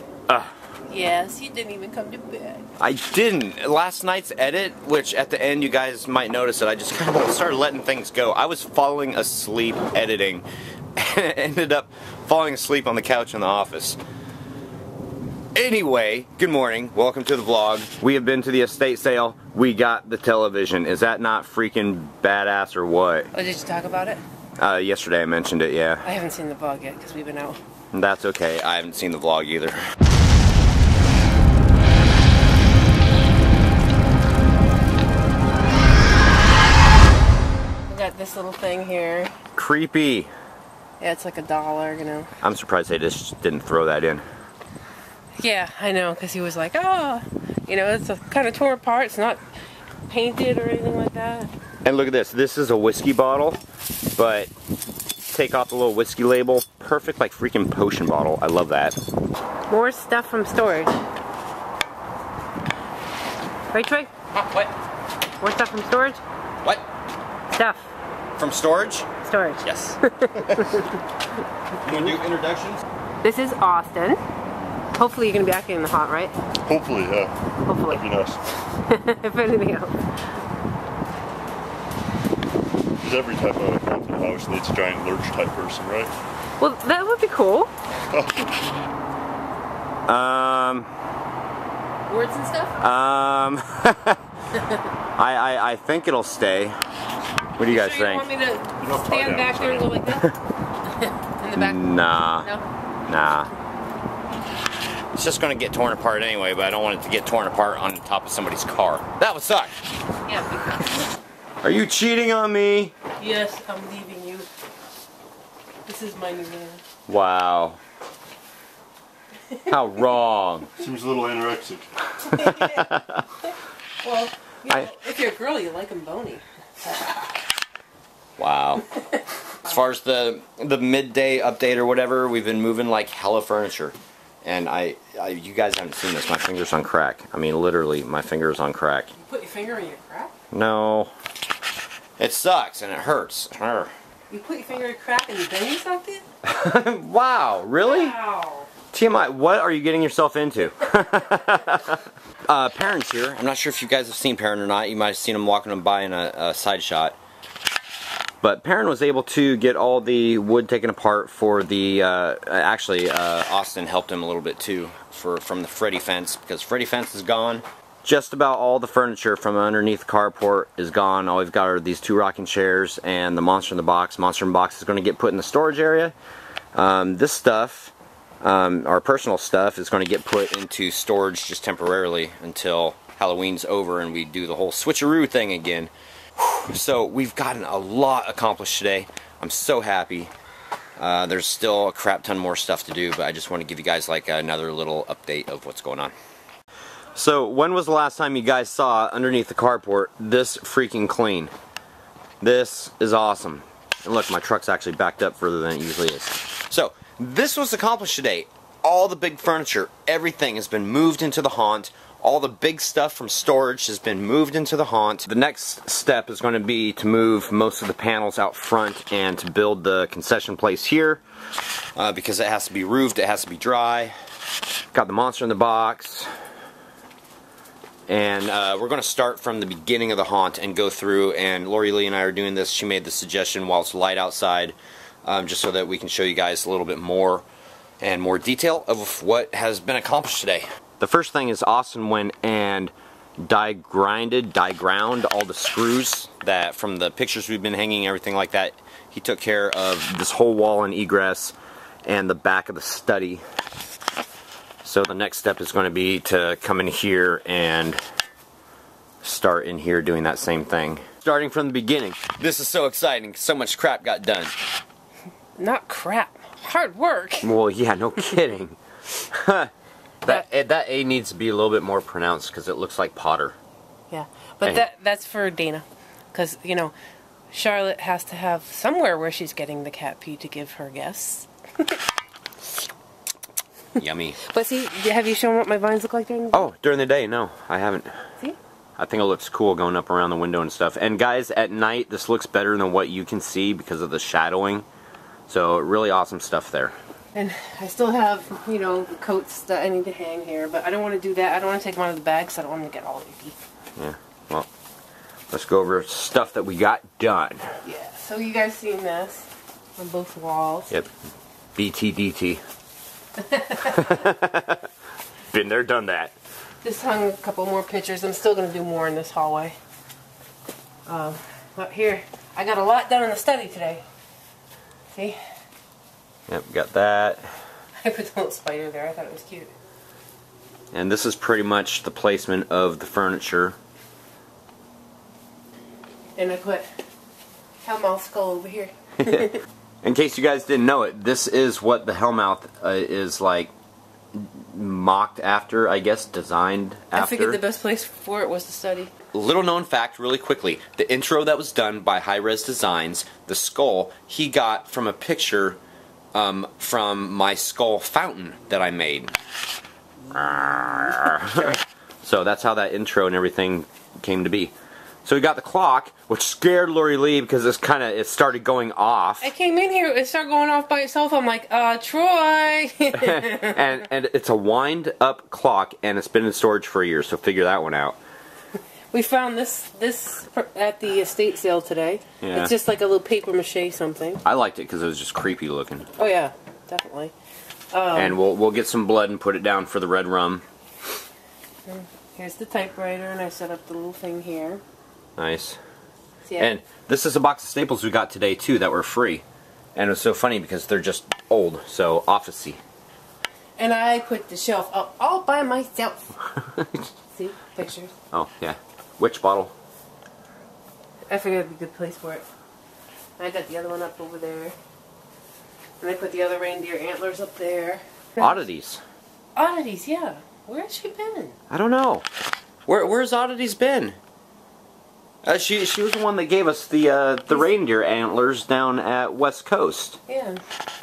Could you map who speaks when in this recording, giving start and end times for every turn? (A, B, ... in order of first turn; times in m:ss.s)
0:00.9-0:02.6 A
0:02.8-0:14.0 B
0:15.5-0:23.3 B
0:23.3-0:24.2 A
0:24.6-0:26.0 B
0:26.0-0:27.6 A
0:27.9-0:29.8 B
0:37.9-0:39.3 A
0:39.5-0:40.3 B
0:41.0-0:42.3 A
0:42.4-0:44.2 B
0:45.4-0:49.4 A
0:50.1-0:51.5 A
0:51.8-0:53.6 B
0:54.1-0:54.5 B
0:55.3-0:59.0 B
0:59.7-1:01.0 A
1:03.7-1:04.7 A
1:05.4-1:06.2 A
1:07.5-1:07.8 A
1:08.4-1:09.1 B
1:09.2-1:11.0 A
1:09.6-1:10.9 B
1:11.8-1:12.8 B
1:13.2-1:14.2 A
1:15.0-1:16.3 A
1:16.7-1:17.3 C
1:17.6-1:18.0 A
1:17.9-1:18.4 C
1:18.8-1:20.0 A
1:23.0-1:26.1 C
1:26.6-1:27.7 A
1:28.1-1:28.4 C
1:30.1-1:30.9 B
1:32.1-1:33.0 A
1:32.8-1:34.2 B
1:34.6-1:34.8 A
1:35.2-1:36.8 B
1:37.6-1:38.2 B
1:37.6-1:40.3 A
1:38.8-1:39.9 C
1:40.1-1:40.3 B
1:40.8-1:41.9 A
1:41.5-1:42.5 B
1:43.1-1:43.5 B
1:45.1-1:49.8 B
1:50.2-1:51.0 A
1:51.6-1:52.9 B
1:53.2-1:54.5 A
1:55.8-1:56.8 A
1:57.1-1:57.8 B
1:59.7-2:00.7 B
2:00.8-2:01.9 C
2:02.2-2:02.9 A
2:02.2-2:03.2 B
2:04.0-2:07.2 A
2:08.4-2:08.8 B
2:09.6-2:19.1 B
2:19.2-2:20.3 A
2:20.5-2:21.1 B
2:22.2-2:23.9 B
2:24.3-2:26.2 A
2:26.4-2:28.1 B
2:27.8-2:28.7 A
2:28.9-2:37.2 B
2:31.0-2:31.3 A
2:38.4-2:56.1 B
2:56.7-3:10.3 B
3:11.0-3:16.1 B
3:17.1-3:21.5 B
3:22.4-3:41.2 B
3:42.0-3:44.1 B
3:44.9-3:46.3 B
3:48.1-3:57.4 B
3:58.0-4:13.4 B
4:14.8-4:18.0 B
4:19.2-4:24.5 B
4:25.6-4:27.5 A
4:27.4-4:29.7 B
4:30.2-4:33.6 B
4:34.1-4:36.9 A
4:37.5-4:42.0 A
4:44.0-4:44.4 B
4:44.4-4:46.7 A
4:46.5-4:48.1 B
4:49.0-4:54.8 B
4:55.5-4:56.9 B
4:57.3-5:03.6 A
5:04.0-5:04.7 B
5:05.5-5:07.7 B
5:07.8-5:10.9 A
5:11.8-5:12.6 B
5:13.4-5:14.2 A
5:13.8-5:14.9 B
5:15.5-5:16.3 B
5:16.8-5:19.8 A
5:21.1-5:24.0 A
5:26.5-5:27.5 B
5:28.0-5:29.7 A
5:30.9-5:33.8 B
5:36.4-5:36.8 A
5:37.8-5:39.6 A
5:40.0-5:43.7 B
5:44.3-5:47.6 B
5:47.1-5:49.1 A
5:49.3-5:55.8 B
5:56.3-5:59.3 B
6:00.3-6:04.7 B
6:05.2-6:09.5 B
6:09.4-6:14.0 A
6:13.1-6:18.2 B
6:19.1-6:24.4 A
6:22.4-6:22.7 B
6:24.4-6:26.1 B
6:26.2-6:27.3 A
6:27.9-6:28.4 A
6:28.1-6:30.6 B
6:31.9-6:34.8 A
6:35.4-6:35.8 B
6:36.6-6:39.4 B
6:40.0-6:42.8 B
6:43.8-6:46.3 A
6:46.6-6:47.1 B
6:47.3-6:48.1 A
6:48.3-6:49.7 B
6:51.3-6:52.4 A
6:53.4-6:54.7 A
6:56.0-6:58.6 A
6:58.4-6:59.0 B
6:59.6-7:01.6 A
7:01.7-7:02.2 B
7:02.9-7:04.2 B
7:05.4-7:10.2 B
7:10.3-7:10.6 A